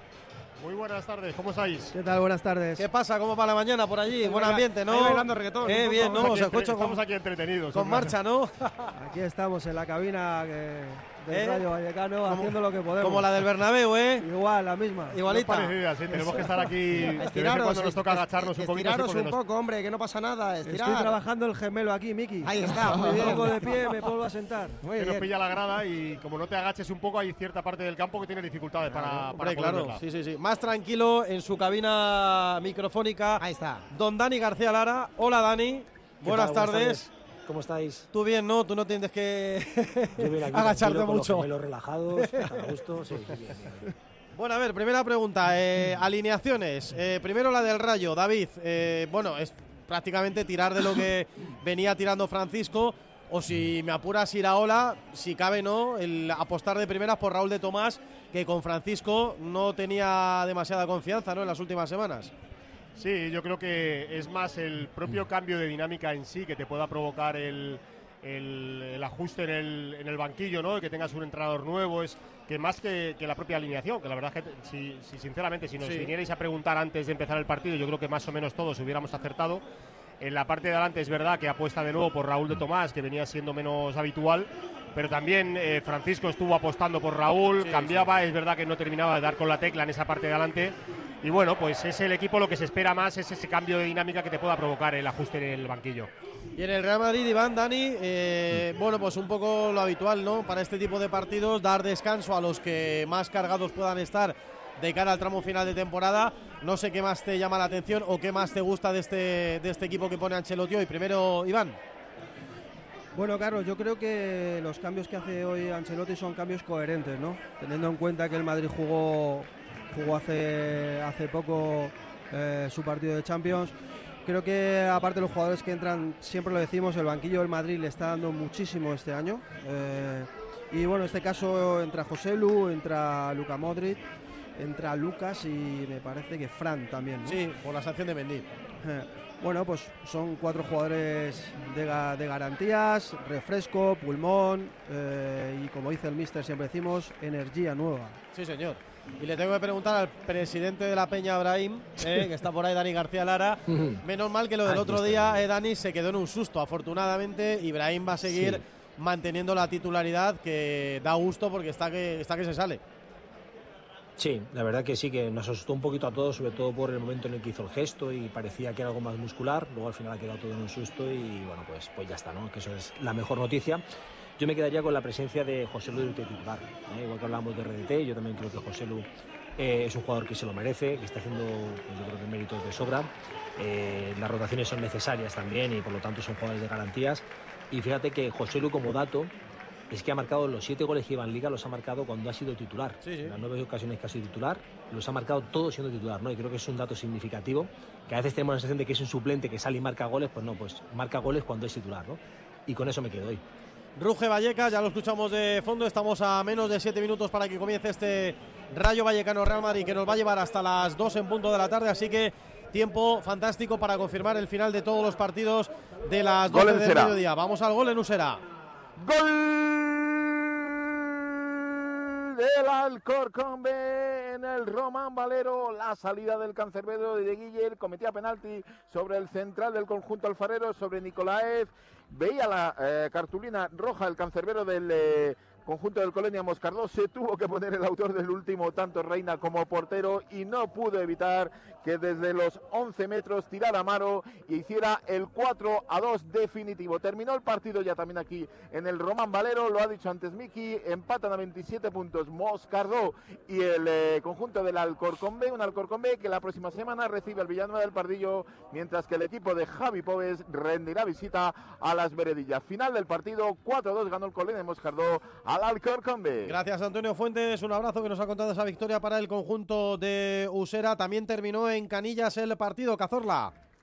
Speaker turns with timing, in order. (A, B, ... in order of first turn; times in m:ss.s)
0:00.6-0:01.9 A
0:01.9-0:02.8 B
0:02.8-0:07.0 C
0:04.2-0:06.0 D
0:04.9-0:08.1 A
0:07.7-0:08.9 C
0:08.9-0:13.3 B
0:11.3-0:11.6 C
0:12.2-0:14.2 C
0:14.2-0:15.2 B
0:15.1-0:15.7 C
0:15.2-0:19.4 A
0:17.1-0:21.2 D
0:20.6-0:24.8 B
0:22.4-0:23.9 D
0:24.8-0:25.3 D
0:24.9-0:30.0 A
0:28.9-0:37.1 C
0:33.4-0:33.8 D
0:36.2-0:38.1 E
0:38.1-0:41.5 C
0:40.2-0:43.9 E
0:42.2-0:42.6 C
0:44.3-1:02.3 C
1:03.0-1:19.6 A
1:15.8-1:16.1 C
1:20.2-1:36.1 A
1:27.6-1:28.2 C
1:36.6-1:51.8 C
1:53.1-2:03.7 B
2:04.2-2:14.0 B
2:14.6-2:17.4 B
2:17.2-2:18.5 C
2:18.8-2:28.2 B
2:28.3-2:42.8 C
2:33.7-2:34.0 E
2:34.6-2:35.4 E
2:38.2-2:38.6 E
2:44.2-2:53.8 E
2:54.4-3:09.3 E
3:09.9-3:23.4 E
3:13.0-3:13.4 C
3:24.0-3:38.4 C
3:36.5-3:37.2 F
3:39.0-4:26.6 F
4:26.4-4:33.5 C